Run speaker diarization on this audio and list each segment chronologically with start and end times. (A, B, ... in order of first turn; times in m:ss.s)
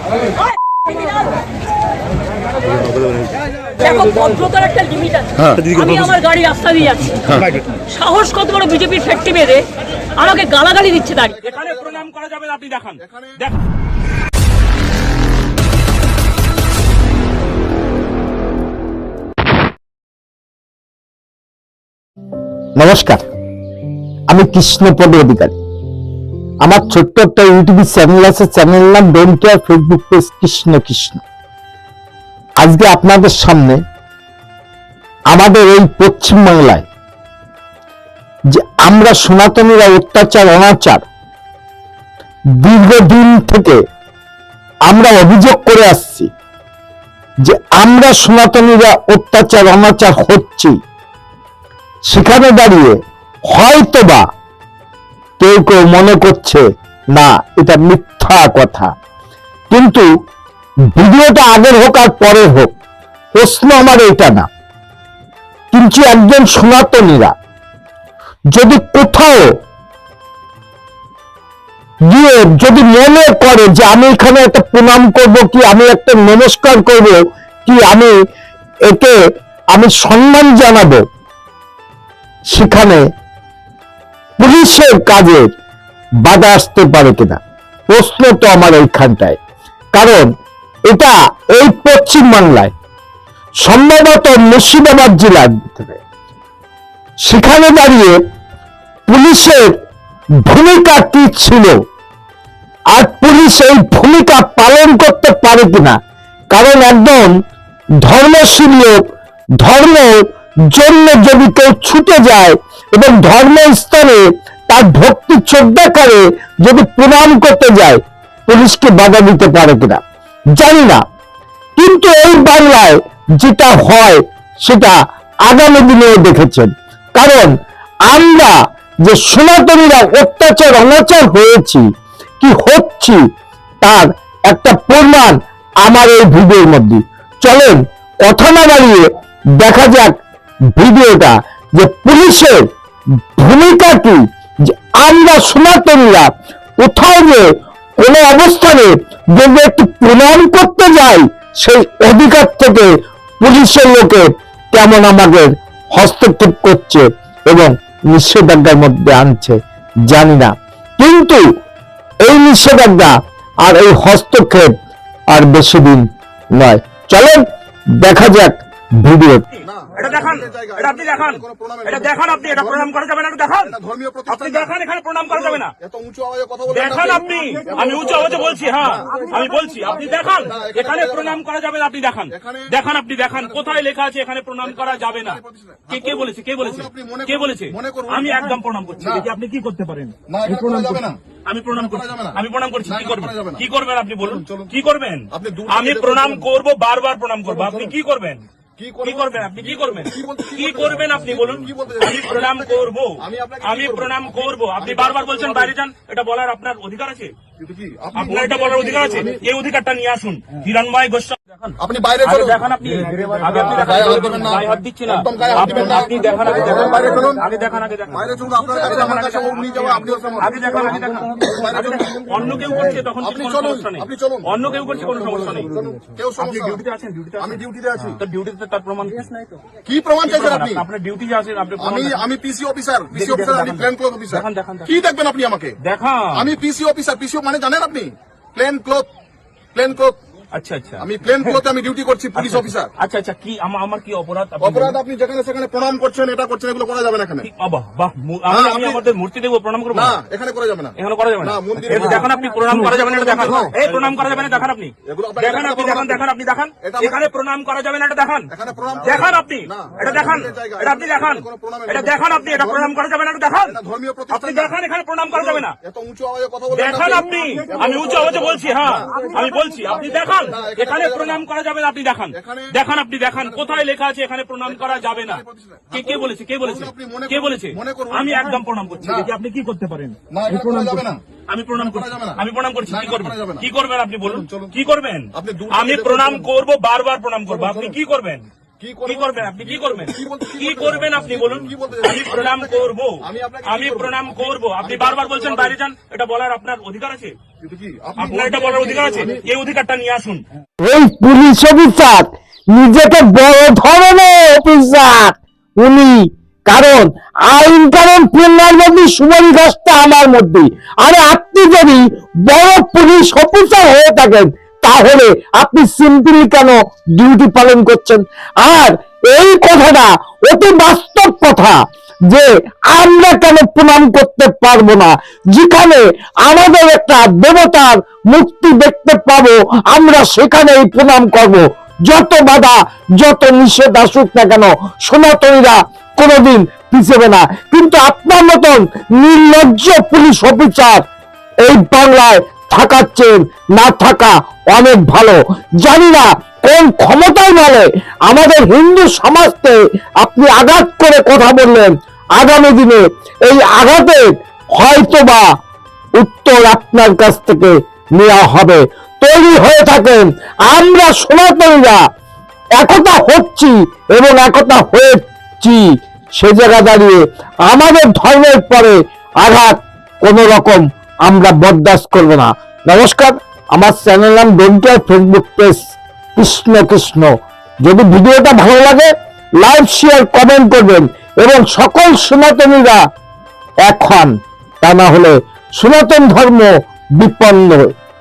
0:00.3-0:01.4 A
0:03.7-0:11.4 A
0:11.3-0:12.0 B
0:11.4-0:13.6 C
0:13.0-0:13.4 B
0:22.8-0:23.2 D
0:24.3-0:25.6 D
0:26.6-0:31.2 D
0:32.6-0:33.8 D
0:35.3-0:36.9 D
0:38.5-0:41.0 D
0:42.6-0:43.8 D
0:44.9-0:46.3 D
0:47.4-0:50.8 D
0:52.1-0:53.0 D
0:53.5-0:54.2 D
0:55.4-0:58.9 D
0:59.7-1:00.1 D
1:00.9-1:02.7 D
1:03.3-1:04.5 D
1:05.7-1:07.3 D
1:08.5-1:09.5 D
1:12.1-1:18.1 D
1:18.9-1:19.2 D
1:19.7-1:21.0 D
1:22.5-1:23.0 D
1:24.4-1:25.5 D
1:26.2-1:29.4 D
1:29.9-1:30.3 D
1:30.9-1:32.7 D
1:33.6-1:36.0 D
1:37.2-1:38.2 D
1:39.1-1:39.7 D
1:40.4-1:41.8 D
1:42.9-1:46.0 D
1:46.5-1:47.3 D
1:48.0-1:49.0 D
1:49.6-2:00.0 D
2:00.5-2:01.0 D
2:01.8-2:07.5 D
2:08.1-2:11.9 D
2:12.4-2:13.2 D
2:13.8-2:20.2 D
2:20.7-2:22.6 D
2:23.4-2:26.3 D
2:26.8-2:27.5 D
2:28.0-2:41.4 D
2:42.2-2:44.7 D
2:45.3-2:47.4 D
2:48.0-2:49.4 D
2:49.5-2:55.8 C
2:49.6-2:52.9 B
2:53.6-2:54.7 B
2:55.3-3:01.4 B
2:56.7-3:18.4 C
3:02.3-3:02.7 B
3:03.3-3:03.8 B
3:04.7-3:09.3 B
3:10.3-3:11.2 B
3:11.7-3:13.6 B
3:14.2-3:14.7 B
3:15.3-3:16.4 B
3:17.5-3:17.9 B
3:18.8-3:25.7 B
3:19.0-3:27.4 C
3:27.6-3:29.4 B
3:28.1-3:45.7 C
3:31.8-3:32.6 B
3:33.8-3:37.4 B
3:38.1-3:44.5 B
3:45.1-3:46.8 B
3:46.4-3:47.6 C
3:47.4-3:48.2 B
3:48.2-3:49.3 C
3:49.8-3:50.8 B
3:50.2-3:52.2 C
3:51.8-3:55.8 B
3:53.1-3:55.0 C
3:55.8-3:56.5 C
3:56.3-3:59.1 B
3:59.7-4:00.2 B
4:00.5-4:01.6 C
4:01.0-4:02.9 B
4:02.3-4:05.0 C
4:04.6-4:07.5 B
4:07.4-4:10.2 C
4:08.5-4:09.0 B
4:09.9-4:13.8 B
4:10.9-4:23.8 C
4:15.0-4:16.2 B
4:16.8-4:17.2 B
4:18.5-4:22.9 B
4:23.6-4:24.7 B
4:24.3-4:25.8 C
4:25.3-4:29.4 B
4:26.7-4:48.5 C
4:30.3-4:31.4 B
4:32.3-4:32.8 B
4:33.3-4:33.8 B
4:34.8-4:39.3 B
4:40.3-4:41.2 B
4:41.7-4:43.7 B
4:44.2-4:44.7 B
4:45.3-4:46.5 B
4:47.5-4:48.0 B
4:48.8-4:55.8 B
4:49.0-4:57.4 C
4:57.6-4:59.4 B
4:58.2-5:00.4 C
5:00.8-5:41.0 D
5:41.6-5:55.5 D
5:56.1-6:02.0 D
6:02.7-6:15.8 D
6:16.4-6:23.0 D
6:23.8-6:27.9 D